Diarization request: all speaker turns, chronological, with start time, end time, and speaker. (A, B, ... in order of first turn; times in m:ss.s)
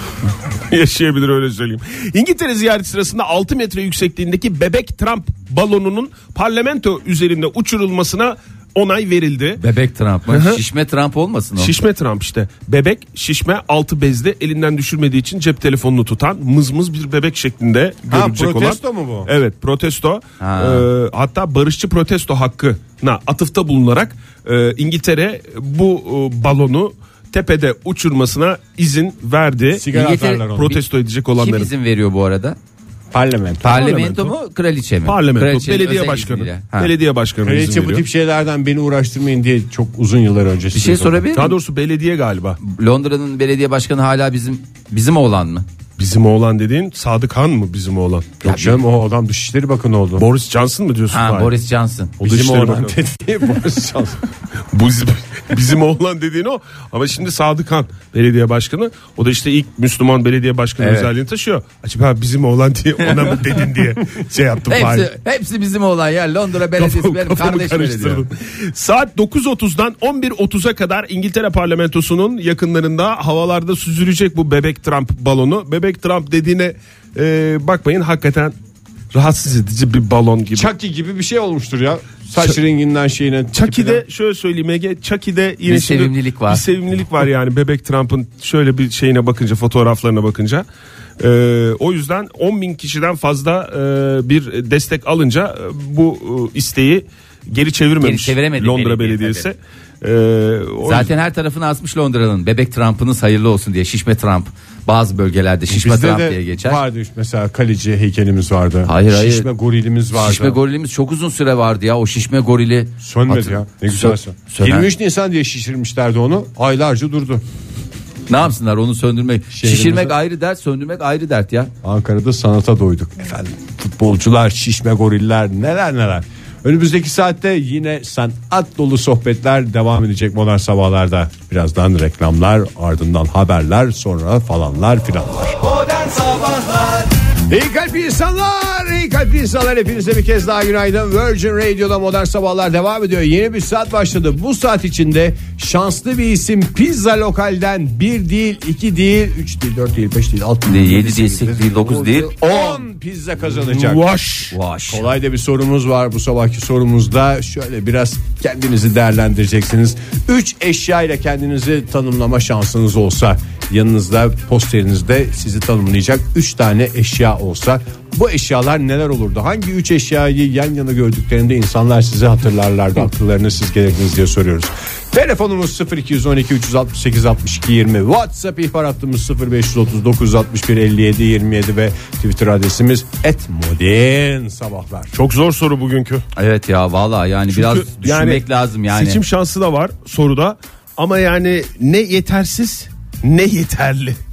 0:00.7-0:09.6 A
0:09.6-0:11.7 B
0:10.3-0:10.6 A
0:11.6-0:29.9 A
0:18.1-0:19.3 C
0:20.4-0:20.9 B
0:29.7-0:30.8 C
0:29.9-0:30.5 B
0:30.5-0:31.7 A
0:31.4-0:32.6 B
0:33.1-0:33.8 C
0:33.6-0:36.9 B
0:33.6-0:34.4 A
0:35.0-0:38.0 A
0:37.4-0:41.2 C
0:40.7-0:41.6 B
0:41.4-0:42.6 A
0:42.6-0:45.6 B
0:46.0-0:48.4 A
0:48.4-0:50.3 C
0:48.4-0:48.8 B
0:50.2-0:51.5 A
0:51.1-0:52.1 B
0:52.2-0:54.2 C
0:52.2-0:53.0 A
0:54.7-1:05.1 A
1:00.8-1:01.1 B
1:03.0-1:03.6 B
1:04.7-1:08.2 B
1:06.8-1:18.5 A
1:19.1-1:20.7 A
1:20.6-1:24.0 C
1:23.5-1:30.6 A
1:25.7-1:26.6 B
1:31.2-1:41.1 A
1:38.0-1:39.5 B
1:40.8-1:46.8 B
1:45.7-1:50.6 C
1:48.9-1:49.5 B
1:50.1-1:54.9 B
1:53.0-1:57.4 C
1:58.3-2:01.7 B
1:59.5-2:00.2 C
2:01.8-2:15.6 C
2:17.5-2:34.0 C
2:30.6-2:32.8 B
2:33.7-2:34.5 A
2:34.5-2:35.0 B
2:34.9-3:05.1 C
3:05.1-3:06.2 A
3:06.4-3:09.2 B
3:07.5-3:14.2 A